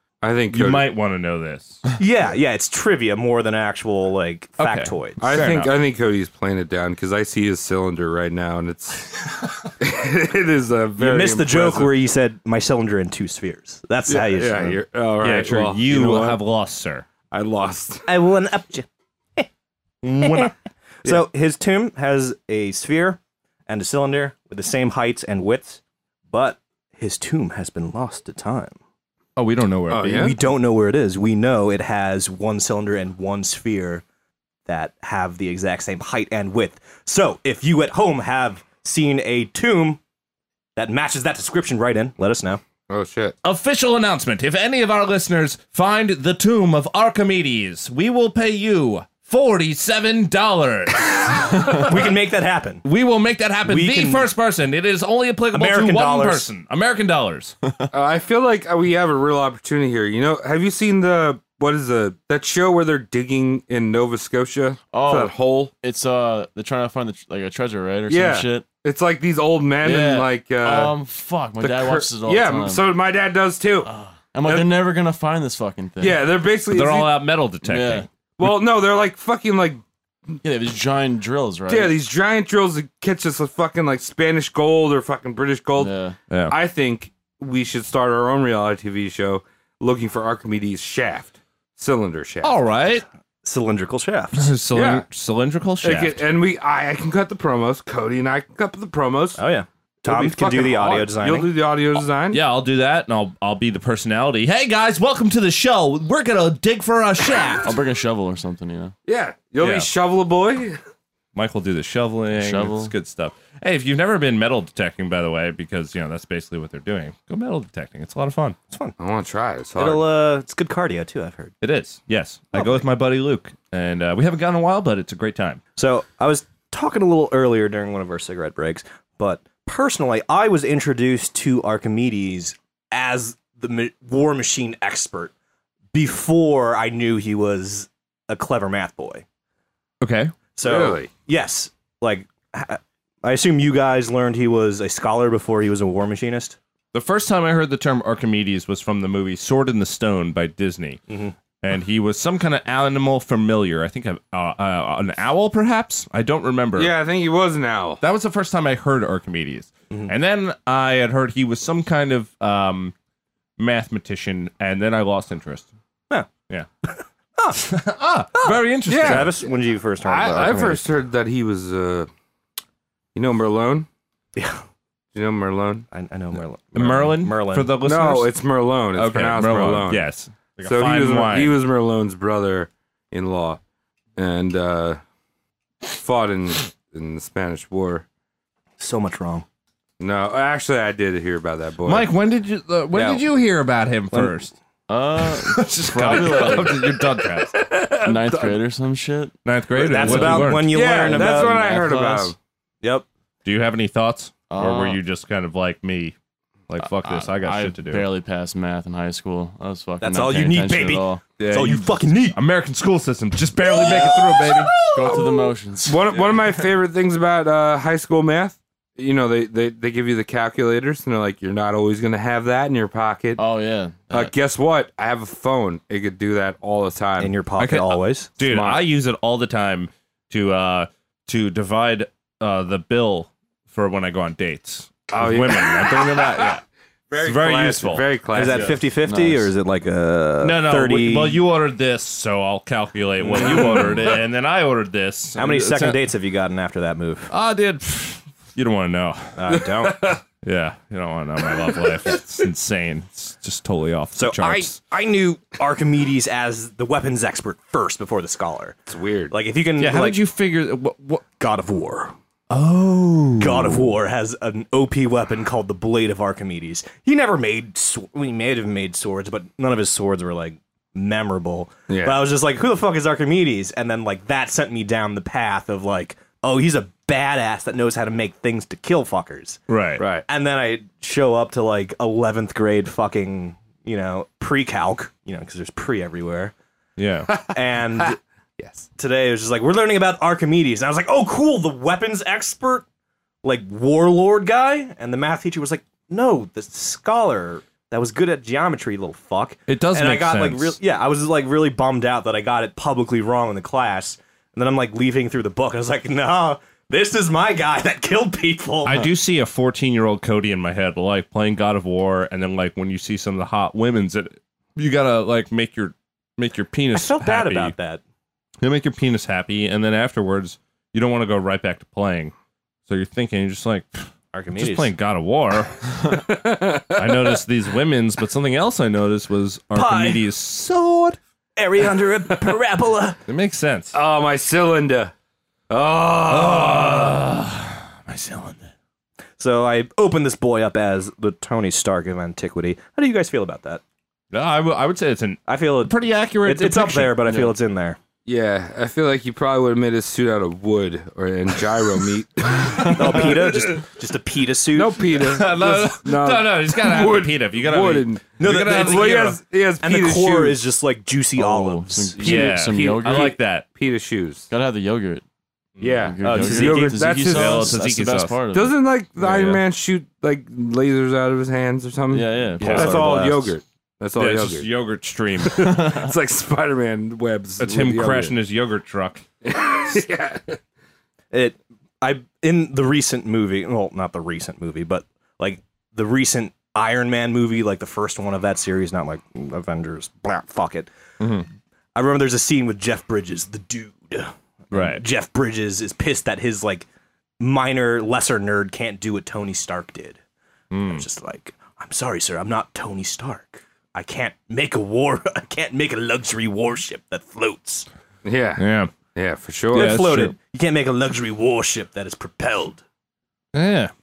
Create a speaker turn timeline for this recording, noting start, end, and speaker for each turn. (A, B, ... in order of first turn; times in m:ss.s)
0:00.2-0:00.9 A
0:00.5-0:01.8 B
0:02.0-0:05.4 C
0:04.6-0:05.7 B
0:05.2-0:11.9 A
0:11.0-0:14.8 C
0:14.1-0:16.4 A
0:15.2-0:17.1 B
0:17.3-0:18.0 A
0:18.1-0:19.5 C
0:20.0-0:28.8 C
0:20.2-0:20.5 B
0:29.4-0:30.3 B
0:29.9-0:30.3 A
0:30.1-0:34.0 C
0:34.6-0:40.0 C
0:40.8-0:42.6 C
0:42.9-0:43.4 A
0:43.4-0:51.9 B
0:51.7-0:52.8 C
0:52.8-0:57.6 B
0:53.6-0:54.3 C
0:55.5-0:56.5 C
0:57.9-1:05.7 A
1:04.9-1:08.6 D
1:08.1-1:10.9 A
1:09.8-1:12.8 D
1:11.6-1:13.9 A
1:13.8-1:16.2 D
1:14.4-1:14.7 A
1:16.0-1:17.1 A
1:16.7-1:18.1 B
1:17.6-1:18.1 D
1:18.4-1:19.8 A
1:20.4-1:22.0 D
1:21.7-1:25.9 A
1:25.8-1:26.2 D
1:26.5-1:32.5 A
1:32.4-1:33.0 B
1:33.4-1:34.5 C
1:34.3-1:36.2 B
1:34.7-1:35.0 A
1:35.8-1:39.4 A
1:39.4-1:41.5 C
1:40.0-1:42.4 A
1:42.3-1:47.7 B
1:47.6-1:48.9 D
1:49.0-1:50.8 A
1:49.6-1:49.9 B
1:51.3-1:58.6 B
1:52.3-1:52.9 D
1:59.0-2:00.0 A
1:59.8-2:01.5 C
2:01.6-2:05.6 B
2:02.5-2:02.8 C
2:05.8-2:15.3 C
2:15.9-2:19.2 C
2:20.0-2:20.4 B
2:20.5-2:26.6 C
2:20.6-2:21.1 A
2:26.9-2:31.0 B
2:31.1-2:31.3 C
2:31.6-2:36.9 B
2:36.8-2:38.0 A
2:38.0-2:42.9 B
2:43.6-2:45.7 B
2:46.8-2:47.7 C
2:47.6-2:49.3 B
2:48.3-2:50.8 C
2:48.9-2:49.4 A
2:50.0-2:52.1 A
2:53.1-2:53.9 A
2:54.4-2:54.6 C
2:55.1-2:55.9 A
2:55.9-2:57.7 C
2:56.7-2:58.3 B
2:57.8-3:00.0 A
2:58.9-3:01.5 B
3:00.6-3:03.6 A
3:04.2-3:05.0 A
3:05.9-3:08.0 A
3:08.8-3:09.4 C
3:10.0-3:12.1 A
3:11.8-3:14.5 B
3:12.9-3:13.2 C
3:14.9-3:17.0 D
3:15.2-3:17.5 B
3:17.5-3:18.6 A
3:18.0-3:19.3 D
3:19.4-3:20.8 B
3:19.7-3:21.6 C
3:20.0-3:22.3 D
3:20.7-3:22.4 A
3:22.8-3:23.1 C
3:23.4-3:26.1 B
3:24.5-3:25.0 D
3:26.7-3:28.1 B
3:26.8-3:31.2 D
3:30.0-3:32.4 C
3:31.4-3:34.8 B
3:33.7-3:35.4 C
3:34.8-3:36.0 D
3:35.8-3:43.4 A
3:43.4-3:44.3 D
3:44.1-3:47.3 A
3:47.2-3:48.3 C
3:47.6-3:56.6 B
3:48.4-3:48.8 A
3:55.1-3:56.5 A
3:57.1-3:58.8 A
3:57.2-3:58.6 B
3:58.3-4:01.4 C
3:59.0-3:59.5 D
4:00.4-4:06.0 B
4:03.3-4:03.9 A
4:03.3-4:03.8 C
4:05.3-4:07.3 C
4:07.3-4:09.4 B
4:09.4-4:10.1 C
4:09.5-4:10.2 A
4:10.4-4:14.8 B
4:14.1-4:18.8 C
4:18.9-4:19.3 A
4:19.3-4:20.2 C
4:19.8-4:21.2 B
4:21.4-4:22.1 C
4:22.5-4:23.8 B
4:23.4-4:39.6 C
4:31.9-4:32.2 A
4:39.7-4:40.0 B
4:40.0-4:40.2 A
4:40.3-4:46.5 C
4:47.0-4:47.4 B
4:47.5-4:48.2 C
4:48.6-4:48.8 A
4:49.0-4:52.8 C
4:53.4-5:09.1 C
4:59.7-5:00.8 B
5:08.8-5:17.7 B
5:16.9-5:18.0 C
5:18.6-5:22.3 B
5:22.9-5:24.0 B
5:24.3-5:24.9 C
5:24.5-5:26.2 B
5:26.1-5:27.2 A
5:27.0-5:31.2 B
5:29.7-5:30.3 C
5:31.6-5:33.2 C
5:33.3-5:34.0 B
5:33.9-5:35.1 A
5:35.7-5:37.2 A
5:36.3-5:38.7 B
5:39.4-5:43.8 C
5:44.3-5:47.3 B
5:45.5-5:48.0 C
5:48.2-5:53.8 A
5:52.9-5:55.0 C
5:54.7-6:00.6 A
5:55.1-5:59.4 B
5:58.4-6:02.5 C
6:01.4-6:03.3 D
6:02.2-6:03.6 B
6:02.2-6:04.5 A
6:04.5-6:05.2 D
6:05.8-6:08.4 B
6:05.8-6:07.8 A
6:06.0-6:08.8 D
6:08.5-6:14.7 A
6:09.2-6:09.6 B
6:12.1-6:13.5 D
6:12.6-6:13.1 B
6:14.2-6:15.9 B
6:15.4-6:18.3 A
6:17.6-6:19.2 B
6:19.4-6:20.6 A
6:21.3-6:30.9 C
6:31.2-6:31.4 B
6:31.9-6:36.8 C
6:34.7-6:35.0 B
6:37.4-6:40.2 C
6:40.7-6:41.0 B
6:40.9-6:47.9 C
6:48.2-6:48.6 A
6:48.6-6:48.9 B
6:49.1-6:50.0 A
6:49.7-6:50.4 B
6:49.7-6:52.8 C
6:53.5-6:53.9 B